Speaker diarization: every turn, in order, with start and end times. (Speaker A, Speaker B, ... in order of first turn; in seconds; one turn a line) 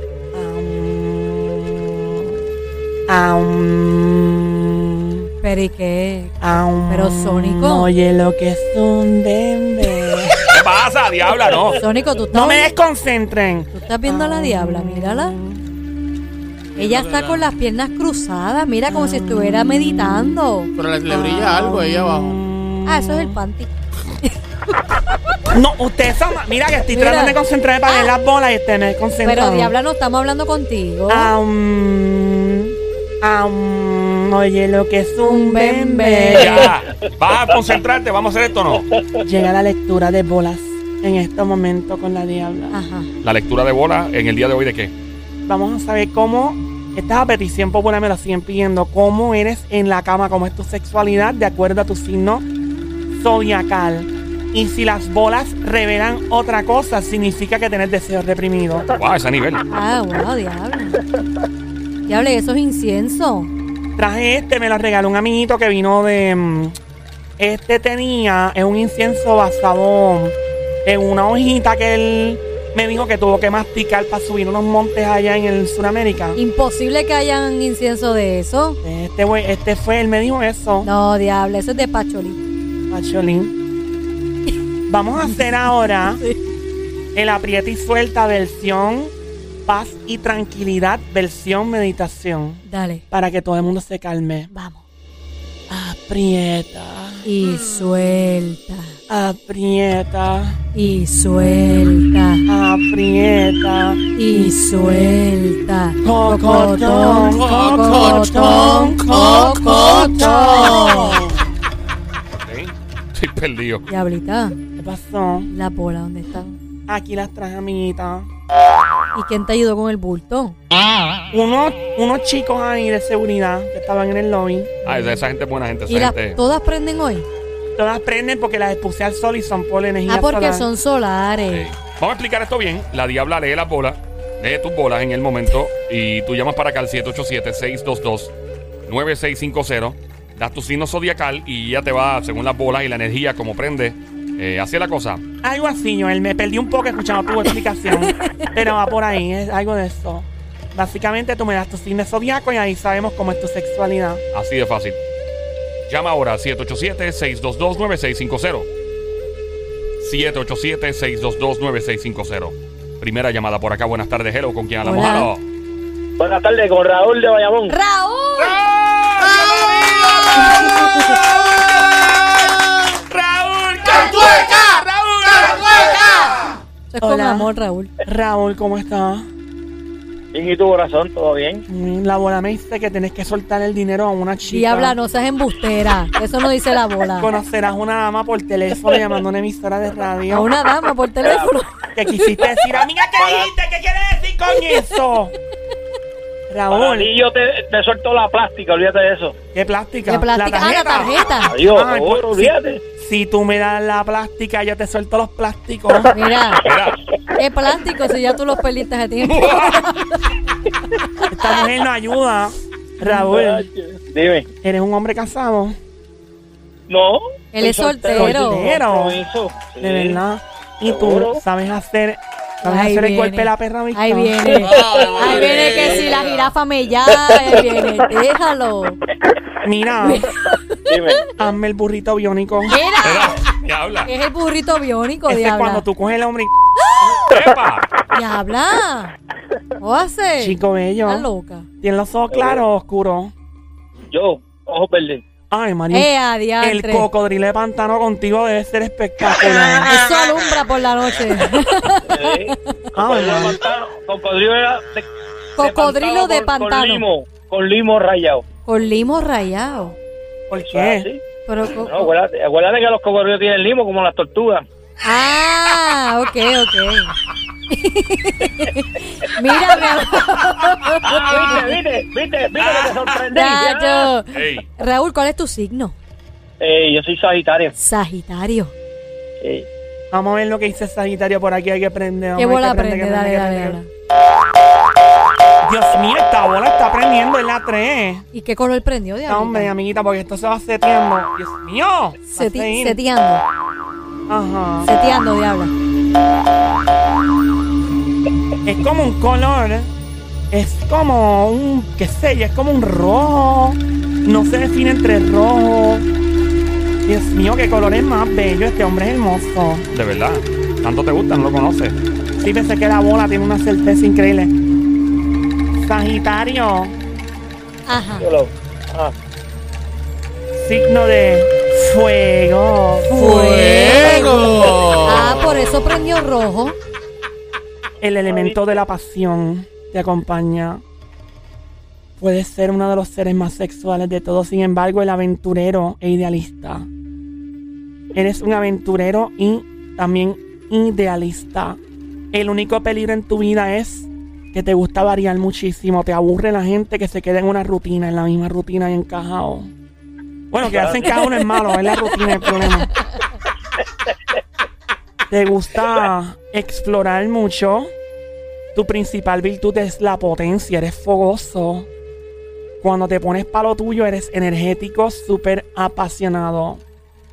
Speaker A: 0.3-2.3
Speaker A: 3.1-5.1
Speaker B: 5.4-6.3
Speaker A: 6.4-10.5
Speaker B: 6.9-7.9
Speaker C: 10.5-11.8
Speaker B: 11.8-12.7
Speaker A: 12.3-15.6
Speaker B: 13.7-15.3
Speaker D: 16.8-17.5
Speaker B: 16.8-20.7
Speaker A: 18.9-20.4
Speaker D: 20.8-22.4
Speaker A: 21.1-23.4
Speaker B: 22.9-23.7
Speaker A: 25.5-29.7
Speaker B: 26.9-28.1
Speaker B: 29.2-31.3
Speaker A: 31.1-36.7
Speaker B: 35.2-36.7
Speaker C: 36.4-38.9
Speaker A: 39.2-42.8
Speaker B: 42.7-43.1
Speaker C: 43.2-44.9
Speaker A: 45.5-52.4
Speaker A: 53.1-58.9
Speaker C: 58.9-59.6
Speaker B: 59.7-61.0
Speaker B: 62.1-63.5
Speaker A: 64.0-66.8
Speaker A: 67.4-76.4
Speaker B: 76.3-78.8
Speaker A: 78.8-80.9
Speaker B: 80.8-82.4
Speaker A: 82.9-83.5
Speaker A: 84.9-86.2
Speaker B: 85.2-86.4
Speaker A: 87.1-89.1
Speaker A: 89.7-94.5
Speaker B: 92.6-93.0
Speaker B: 94.5-94.8
Speaker A: 95.7-97.2
Speaker B: 97.2-99.0
Speaker A: 99.1-100.6
Speaker B: 100.7-102.4
Speaker A: 102.5-105.2
Speaker B: 104.2-111.2
Speaker A: 106.0-111.1
Speaker D: 107.2-111.3
Speaker C: 112.3-113.8
Speaker B: 113.9-114.6
Speaker A: 114.8-115.5
Speaker B: 115.5-116.6
Speaker A: 116.9-118.3
Speaker B: 119.1-120.5
Speaker A: 121.3-125.1
Speaker C: 124.8-126.4
Speaker B: 125.9-127.2
Speaker A: 127.8-130.7
Speaker B: 130.1-131.7
Speaker C: 131.5-138.3
Speaker C: 138.9-145.2
Speaker A: 145.4-154.2
Speaker B: 148.2-148.5
Speaker C: 154.3-155.0
Speaker C: 155.8-158.7
Speaker C: 160.0-165.4
Speaker B: 164.8-165.3
Speaker E: 166.2-167.7
Speaker B: 167.7-168.6
Speaker A: 168.9-176.0
Speaker D: 173.9-174.8
Speaker D: 175.4-176.4
Speaker B: 176.9-177.9
Speaker A: 177.0-177.5
Speaker A: 178.0-179.3
Speaker E: 180.3-181.6
Speaker A: 181.7-184.9
Speaker B: 184.5-187.3
Speaker A: 187.2-190.5
Speaker B: 190.3-191.7
Speaker E: 191.2-191.5
Speaker A: 191.9-195.3
Speaker E: 192.7-193.5
Speaker A: 196.5-197.1
Speaker E: 196.7-199.3
Speaker A: 199.5-206.1
Speaker B: 200.1-201.5
Speaker E: 201.4-202.8
Speaker B: 206.1-206.6
Speaker C: 206.6-207.0
Speaker B: 207.4-210.3
Speaker C: 209.2-209.8
Speaker A: 211.3-213.7
Speaker E: 213.0-214.5
Speaker A: 214.6-215.8
Speaker E: 216.9-220.2
Speaker B: 217.5-218.7
Speaker A: 218.1-219.2
Speaker A: 219.8-224.6
Speaker E: 220.8-221.4
Speaker B: 222.6-229.0
Speaker D: 224.5-226.5
Speaker E: 224.7-226.0
Speaker E: 227.3-227.6
Speaker A: 229.6-230.2
Speaker B: 230.0-231.0
Speaker E: 230.9-231.3
Speaker A: 231.4-232.8
Speaker B: 232.7-233.5
Speaker C: 233.0-234.1
Speaker B: 234.0-235.8
Speaker A: 235.3-236.5
Speaker C: 237.1-237.9
Speaker B: 238.1-239.1
Speaker B: 239.8-241.7
Speaker A: 240.4-241.3
Speaker A: 241.8-243.3
Speaker E: 242.3-242.6
Speaker E: 244.1-245.2
Speaker A: 245.5-249.9
Speaker B: 245.9-247.1
Speaker B: 249.8-252.8
Speaker E: 252.1-255.1
Speaker A: 252.9-253.6
Speaker B: 255.6-257.0
Speaker E: 255.6-258.4
Speaker B: 258.6-259.9
Speaker A: 260.5-261.1
Speaker E: 260.6-261.2
Speaker B: 261.5-262.1
Speaker E: 261.8-264.6
Speaker B: 265.0-267.1
Speaker B: 267.7-271.6
Speaker E: 271.0-274.1
Speaker C: 272.6-272.9
Speaker B: 273.3-275.9
Speaker C: 274.3-274.7
Speaker E: 276.6-277.7
Speaker B: 277.8-278.7
Speaker E: 279.4-279.7
Speaker A: 280.1-283.8
Speaker B: 282.4-283.9
Speaker A: 285.6-288.2
Speaker B: 288.3-289.7
Speaker A: 289.3-293.0
Speaker B: 292.3-293.4
Speaker A: 294.3-294.9
Speaker B: 294.8-295.7
Speaker A: 298.6-299.9
Speaker A: 300.5-306.1
Speaker A: 307.0-309.9
Speaker C: 309.9-311.9
Speaker A: 312.4-314.5
Speaker A: 315.8-316.9
Speaker B: 317.9-318.3
Speaker E: 318.2-319.1
Speaker A: 320.6-323.1
Speaker B: 323.1-326.8
Speaker D: 323.1-325.7
Speaker A: 328.0-330.8
Speaker E: 328.3-328.7
Speaker A: 332.2-336.9
Speaker A: 338.1-341.8
Speaker A: 342.3-349.7
Speaker A: 350.5-352.9
Speaker E: 350.6-351.5
Speaker A: 355.3-357.9
Speaker A: 358.7-361.9
Speaker A: 362.8-366.8